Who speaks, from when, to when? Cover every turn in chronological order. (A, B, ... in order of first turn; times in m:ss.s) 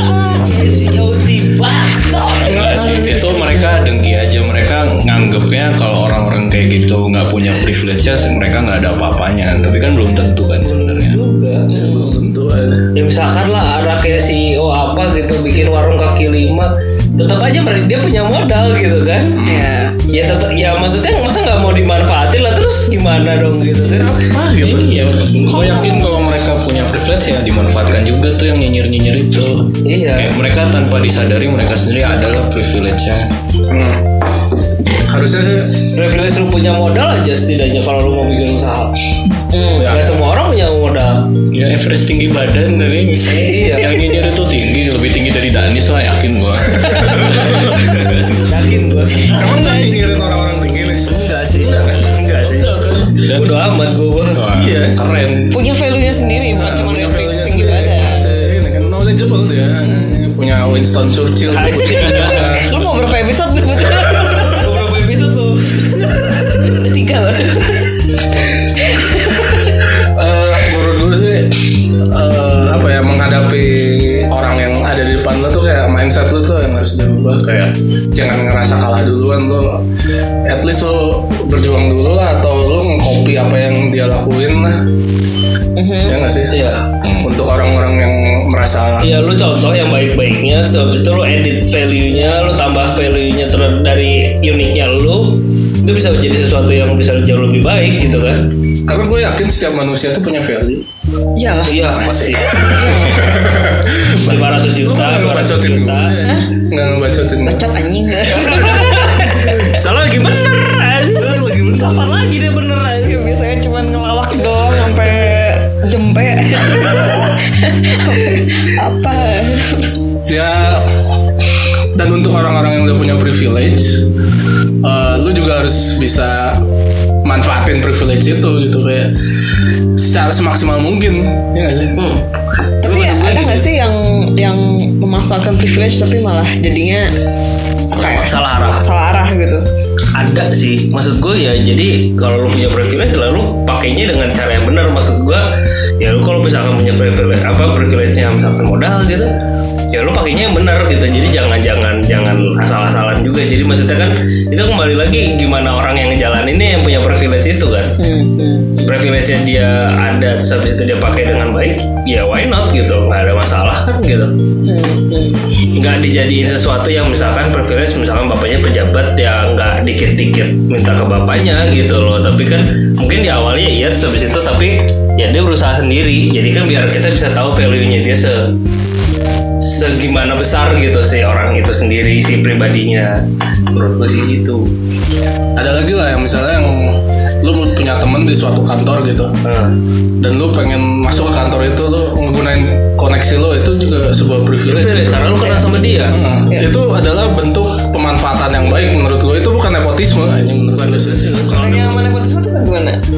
0:00.3-0:02.8 A
0:02.4-0:11.2 B
0:02.5-0:03.6 C
0:10.6-0:12.2 A
0:11.7-0:12.1 D
0:11.8-0:12.9 C
0:12.9-0:19.4 A
0:19.4-0:19.7 C
0:19.4-0:20.0 D
0:20.1-0:24.2 A
0:23.9-0:25.8 C
0:24.6-0:33.3 B
0:29.8-0:30.4 A
0:33.7-0:34.0 C
0:35.0-0:35.7 C
0:35.9-0:38.9 A
0:39.5-0:40.0 D
0:39.8-0:40.1 C
0:39.8-0:41.3 A
0:41.5-0:48.4 B
0:43.2-0:44.0 A
0:43.6-0:43.9 C
0:46.9-0:47.8 C
0:48.3-0:49.4 A
0:49.2-0:53.3 C
0:49.3-0:50.2 D
0:51.1-0:54.5 A
0:53.3-0:53.6 B
0:54.3-0:54.8 B
0:54.5-0:55.6 C
0:55.5-0:58.2 D
0:56.5-1:02.8 C
0:59.8-1:00.2 D
1:01.5-1:02.6 A
1:01.8-1:04.7 D
1:04.3-1:06.0 A
1:06.0-1:09.8 D
1:09.8-1:19.8 C
1:20.5-1:24.8 C
1:25.8-1:26.2 D
1:26.0-1:26.5 C
1:26.5-1:26.9 A
1:27.0-1:27.3 B
1:27.2-1:29.1 C
1:29.0-1:38.5 A
1:38.9-1:40.8 C
1:41.4-1:41.9 D
1:41.6-1:43.5 A
1:42.0-1:47.6 C
1:42.4-1:43.6 D
1:44.1-1:46.3 A
1:46.2-1:46.5 D
1:47.4-1:49.8 D
1:48.3-1:53.2 A
1:53.0-1:59.9 D
2:00.3-2:00.9 C
2:02.0-2:04.0 C
2:04.8-2:06.6 C
2:07.2-2:09.1 C
2:10.0-2:12.0 C
2:12.0-2:13.7 A
2:12.8-2:17.1 D
2:17.9-2:18.8 A
2:17.9-2:19.6 D
2:20.2-2:25.5 A
2:26.0-2:29.3 A
2:29.9-2:38.0 A
2:38.0-2:38.8 D
2:38.8-2:44.3 A
2:44.6-2:45.4 D
2:45.7-2:58.5 A
2:59.6-3:04.7 A
3:05.6-3:09.3 C
3:09.4-3:09.7 A
3:10.2-3:15.5 C
3:14.6-3:16.2 A
3:15.4-3:16.8 D
3:16.1-3:21.5 C
3:20.7-3:22.1 A
3:21.5-3:23.0 D